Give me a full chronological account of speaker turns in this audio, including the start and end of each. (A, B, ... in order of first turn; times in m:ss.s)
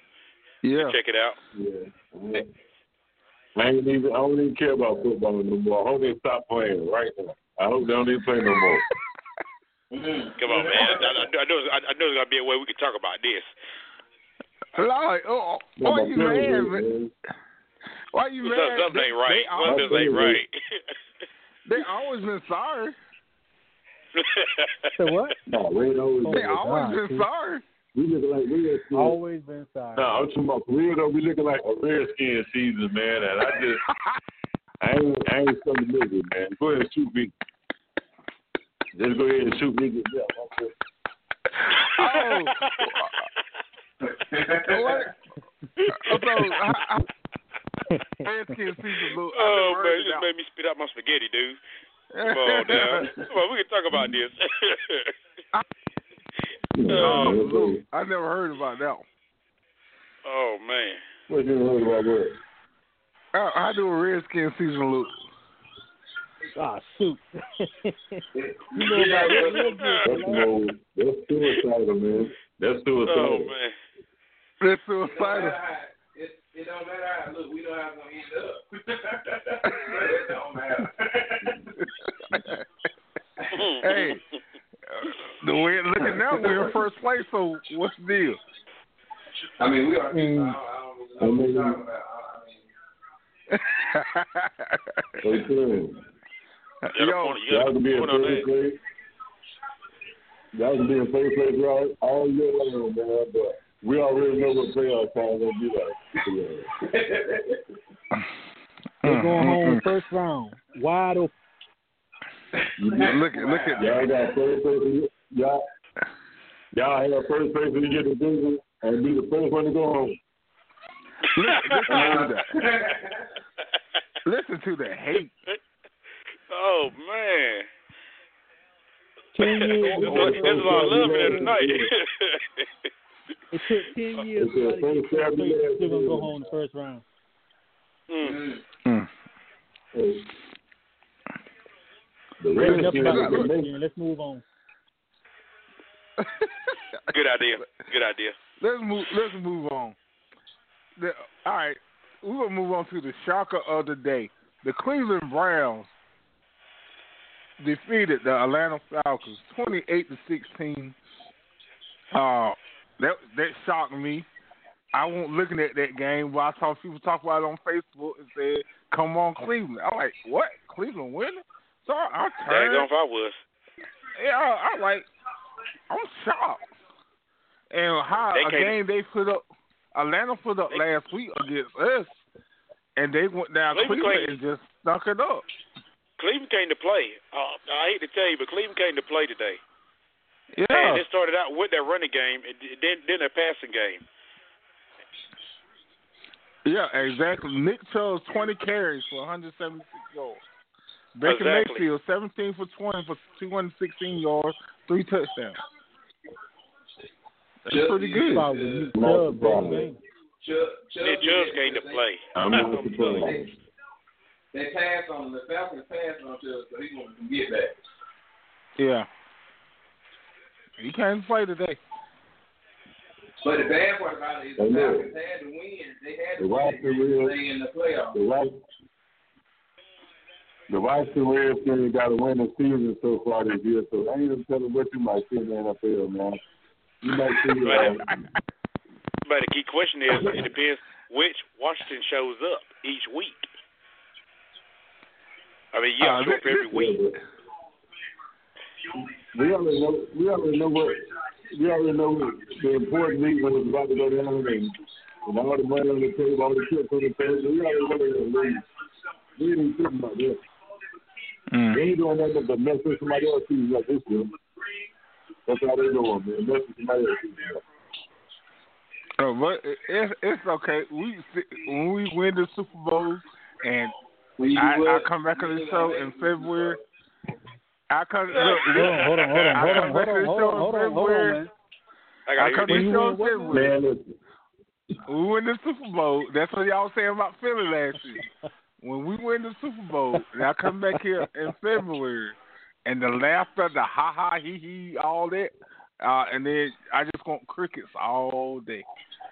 0:00.6-0:01.0 A
0:00.8-0:01.4 B
0:01.5-0:02.5 C
0:03.6-0:08.8 C
0:08.4-0:08.8 A
0:09.9-0:11.1 D
0:10.4-0:13.5 B
0:14.8-0:16.8 A
0:15.8-0:17.1 C
0:18.1-0:20.1 A
0:18.4-0:20.8 B
0:19.6-0:20.4 C
0:21.6-0:22.9 A
0:24.1-0:24.9 B
0:24.9-0:25.4 E
0:25.5-0:26.6 C
0:26.2-0:27.2 E
0:26.3-0:27.6 A
0:27.9-0:29.2 C
0:28.9-0:30.1 E
0:29.9-0:33.8 C
0:34.8-0:37.3 C
0:38.9-0:40.7 C
0:41.6-0:43.2 A
0:42.0-0:43.0 B
0:44.0-0:45.1 D
0:44.7-0:45.1 A
0:45.9-0:47.0 A
0:47.9-0:48.8 E
0:48.2-0:50.3 A
0:49.3-0:51.6 B
0:52.1-0:53.1 A
0:52.2-0:55.1 B
0:56.7-0:57.8 C
0:56.9-0:57.4 B
0:56.9-0:59.0 A
1:00.2-1:01.0 B
1:01.3-1:02.4 C
1:03.3-1:05.2 A
1:06.5-1:08.2 E
1:08.3-1:09.7 D
1:08.7-1:10.5 E
1:09.5-1:10.0 B
1:10.0-1:13.5 C
1:13.0-1:13.7 B
1:14.6-1:15.6 A
1:15.0-1:21.8 D
1:22.3-1:22.6 A
1:23.4-1:23.7 D
1:23.5-1:24.1 B
1:23.7-1:24.2 A
1:24.9-1:28.4 A
1:26.0-1:26.7 D
1:29.6-1:32.7 D
1:30.1-1:30.6 A
1:31.2-1:31.8 C
1:33.5-1:35.2 A
1:35.2-1:36.0 C
1:36.8-1:37.4 A
1:36.9-1:38.5 B
1:37.5-1:38.8 C
1:40.5-1:46.7 C
1:46.8-1:47.6 D
1:49.0-1:49.8 A
1:49.0-1:51.3 E
1:52.6-1:54.1 D
1:52.8-1:53.2 C
1:53.0-1:54.0 A
1:53.8-1:55.6 C
1:56.7-2:00.2 C
2:01.3-2:02.6 A
2:01.4-2:02.1 B
2:01.9-2:03.3 D
2:04.2-2:05.3 A
2:06.5-2:07.7 B
2:09.4-2:11.5 E
2:09.4-2:12.9 B
2:09.8-2:11.9 C
2:13.5-2:17.0 E
2:14.4-2:16.4 C
2:18.1-2:18.4 B
2:18.2-2:18.6 D
2:18.8-2:19.1 A
2:19.9-2:20.2 C
2:22.4-2:23.7 C
2:22.5-2:24.4 E
2:22.6-2:23.5 A
2:26.2-2:26.8 A
2:27.1-2:28.4 B
2:28.6-2:30.0 A
2:31.0-2:35.9 A
2:37.6-2:41.0 A
2:42.1-2:44.3 A
2:44.9-2:52.9 A
2:52.4-2:53.4 B
2:54.1-2:55.1 A
2:55.9-2:56.6 A
2:57.7-3:02.2 A
2:58.3-2:58.7 B
3:03.0-3:05.5 A
3:03.7-3:04.4 B
3:06.2-3:09.6 B
3:10.5-3:11.0 A
3:10.7-3:14.0 B
3:16.6-3:20.4 A
3:21.1-3:25.6 A
3:21.2-3:21.8 B
3:27.6-3:28.5 A
3:27.7-3:28.9 D
3:28.3-3:30.0 E
3:28.9-3:29.9 C
3:30.4-3:32.7 D
3:31.0-3:33.3 B
3:32.3-3:33.5 C
3:33.2-3:33.4 D
3:34.5-3:37.8 D
3:38.8-3:39.1 A
3:40.8-3:41.8 A
3:43.4-3:48.2 D
3:44.6-3:45.1 C
3:46.4-3:47.4 C
3:48.1-3:48.6 C
3:50.7-3:56.4 C
3:57.0-3:58.1 C
3:57.6-3:57.9 B
3:57.7-3:58.3 A
3:59.2-4:03.5 B
4:05.7-4:07.0 B
4:06.0-4:06.8 A
4:06.6-4:07.2 C
4:09.0-4:14.7 C
4:15.2-4:18.6 C
4:19.4-4:20.4 C
4:21.5-4:21.8 A
4:21.7-4:24.3 C
4:25.5-4:27.6 C
4:29.2-4:33.9 A
4:34.4-4:36.8 D
4:34.5-4:36.8 A
4:37.9-4:41.4 A
4:38.3-4:39.9 B
4:38.7-4:41.5 E
4:42.3-4:42.9 B
4:42.4-4:43.7 A
4:42.7-4:43.7 E
4:43.5-4:44.2 C
4:45.0-4:48.3 A
4:48.8-4:58.8 A